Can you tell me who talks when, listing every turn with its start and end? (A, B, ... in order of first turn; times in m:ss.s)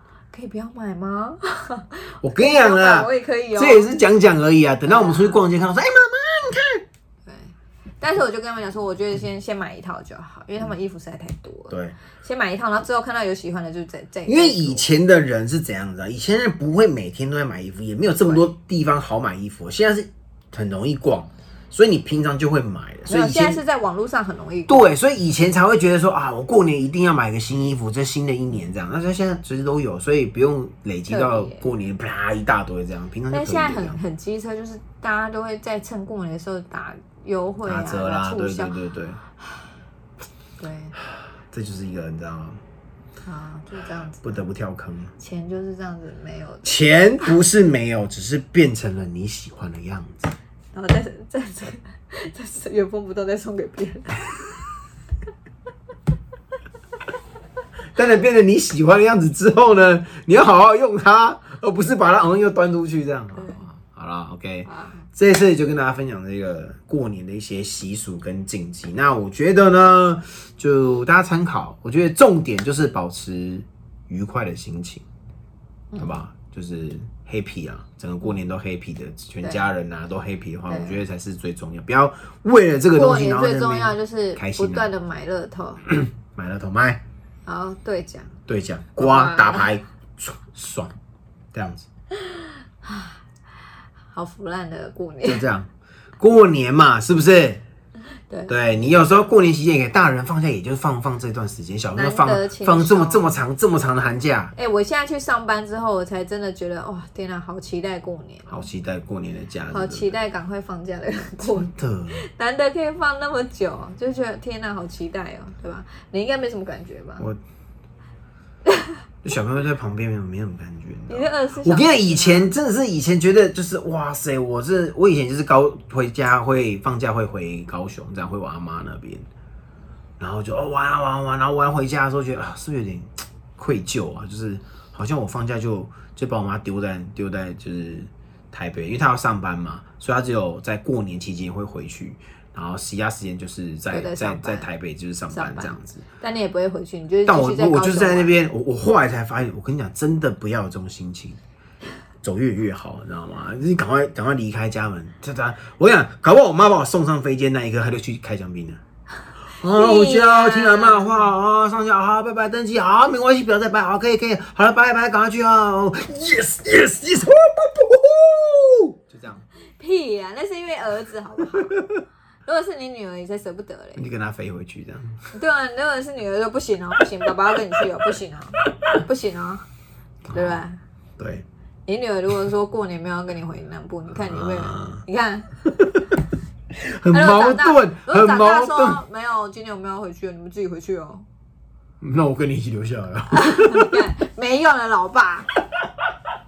0:00.3-0:04.0 A
0:02.2-0:06.8 B
0:04.8-0:05.4 A
0:07.2-0:14.9 A
0:11.7-0:12.0 B
0:14.3-0:23.6 B
0:23.1-0:24.9 A
0:24.7-0:34.0 B
0:31.1-0:31.6 A
0:33.3-0:38.7 A
0:37.6-0:39.2 B
0:40.6-0:41.0 A
0:41.5-0:42.6 B
0:43.2-0:44.4 A
0:44.2-0:45.1 B
0:45.2-0:47.3 A
0:46.6-0:50.3 B
0:50.7-0:54.2 A
0:57.9-1:15.0 B
1:04.7-1:05.0 A
1:15.9-1:16.2 A
1:16.0-1:24.9 B
1:19.4-1:19.7 A
1:20.7-1:21.0 A
1:22.9-1:25.8 A
1:25.9-1:27.0 B
1:27.4-1:28.3 A
1:28.5-1:30.9 B
1:29.0-1:29.7 A
1:31.5-1:31.8 B
1:32.8-1:33.1 A
1:34.1-1:35.4 A
1:35.2-1:35.7 B
1:36.2-1:37.6 B
1:38.3-1:38.9 A
1:38.5-1:44.5 B
1:41.9-1:43.4 A
1:44.6-1:48.6 A
1:48.5-1:50.2 B
1:49.7-1:57.3 A
1:51.4-1:52.2 B
1:58.6-1:58.9 A
1:59.2-2:09.3 B
2:01.1-2:02.5 A
2:10.2-2:26.0 B
2:23.9-2:24.7 A
2:25.3-2:28.4 A
2:27.3-2:31.4 B
2:32.2-2:38.8 B
2:39.6-2:49.4 B
2:39.6-2:41.2 A
2:49.8-2:51.8 A
2:52.4-2:54.1 A
2:54.0-2:55.2 B
2:55.3-2:59.6 A
3:00.3-3:00.6 B
3:00.3-3:00.8 A
3:01.2-3:01.4 B
3:01.9-3:05.5 A
3:04.1-3:05.0 B
3:05.6-3:06.0 B
3:06.7-3:09.0 B
3:07.1-3:11.2 A
3:12.0-3:14.0 B
3:13.3-3:15.5 A